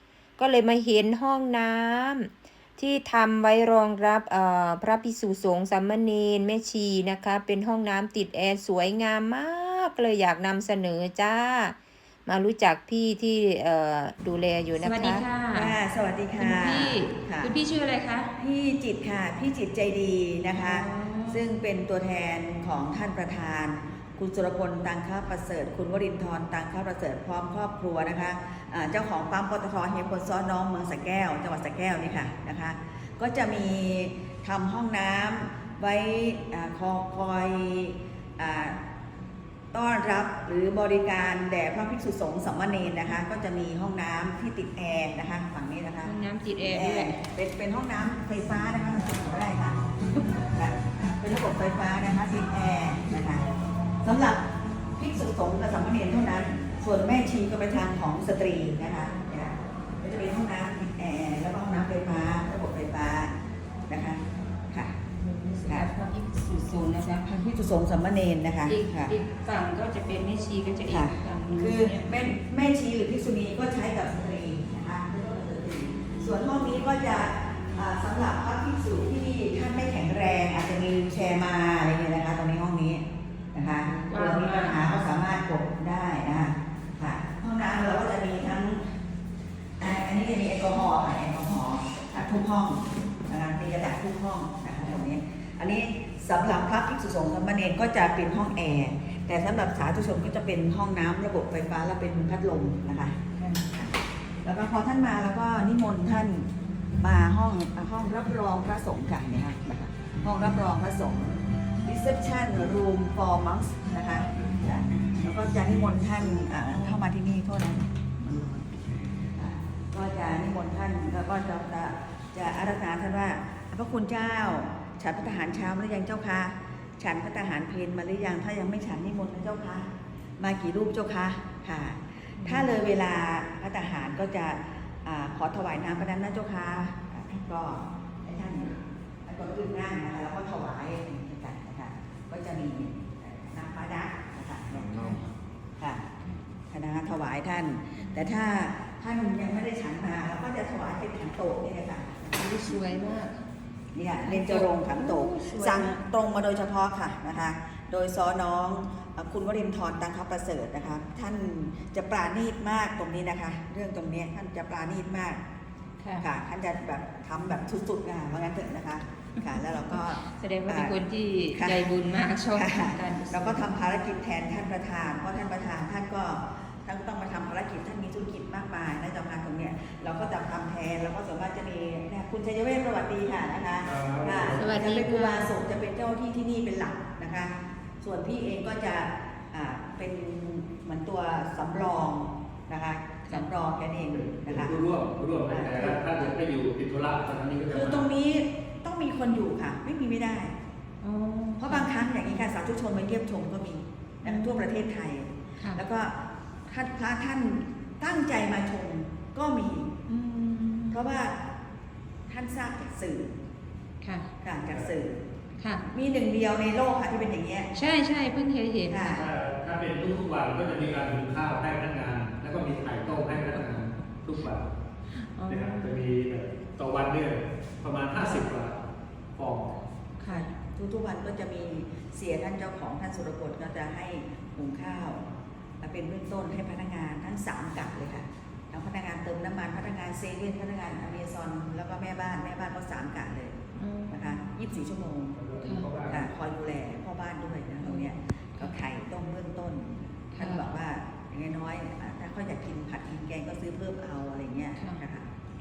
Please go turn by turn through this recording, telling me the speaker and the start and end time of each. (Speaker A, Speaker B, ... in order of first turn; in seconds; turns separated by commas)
Speaker A: 0.4-15.2, Speaker B: 14.8-15.8, Speaker C: 15.5-17.6, Speaker B: 16.4-18.3, Speaker C: 18.4-38.8, Speaker B: 20.6-21.4, Speaker C: 39.7-46.2, Speaker B: 46.0-47.2, Speaker C: 46.7-49.8, Speaker C: 50.5-53.5, Speaker C: 54.0-63.3, Speaker C: 63.9-65.0, Speaker B: 65.1-67.3, Speaker C: 67.2-69.1, Speaker B: 68.7-72.1, Speaker C: 70.9-88.8, Speaker B: 84.1-84.8, Speaker C: 89.8-106.5, Speaker C: 107.0-118.6, Speaker C: 119.3-145.2, Speaker B: 132.4-132.7, Speaker B: 144.9-145.2, Speaker C: 145.8-146.1, Speaker C: 146.7-153.0, Speaker B: 148.0-148.3, Speaker B: 152.3-153.4, Speaker C: 153.9-165.4, Speaker B: 154.2-156.0, Speaker B: 166.0-166.3, Speaker C: 166.2-171.0, Speaker B: 169.4-173.7, Speaker C: 171.5-171.9, Speaker C: 172.5-194.7, Speaker D: 183.9-184.7, Speaker B: 184.6-185.5, Speaker D: 194.1-198.1, Speaker C: 195.5-196.3, Speaker C: 197.7-200.5, Speaker B: 201.0-201.9, Speaker C: 201.6-206.1, Speaker B: 204.2-204.7, Speaker C: 206.7-210.3, Speaker B: 210.3-211.0, Speaker C: 210.8-211.4, Speaker C: 212.3-213.3, Speaker B: 214.0-214.3, Speaker C: 214.4-215.2, Speaker B: 215.6-215.8, Speaker C: 215.9-217.7, Speaker B: 217.7-219.2, Speaker C: 218.9-219.3, Speaker D: 219.0-224.7, Speaker B: 225.2-226.0, Speaker D: 225.5-228.8, Speaker D: 229.4-229.8, Speaker B: 230.2-230.5, Speaker C: 230.3-235.3, Speaker C: 235.8-243.6, Speaker B: 243.8-244.4, Speaker C: 244.1-245.4, Speaker D: 245.4-246.3, Speaker B: 245.6-245.9, Speaker C: 246.1-255.3, Speaker B: 247.8-248.8, Speaker B: 250.4-250.7, Speaker B: 254.8-255.0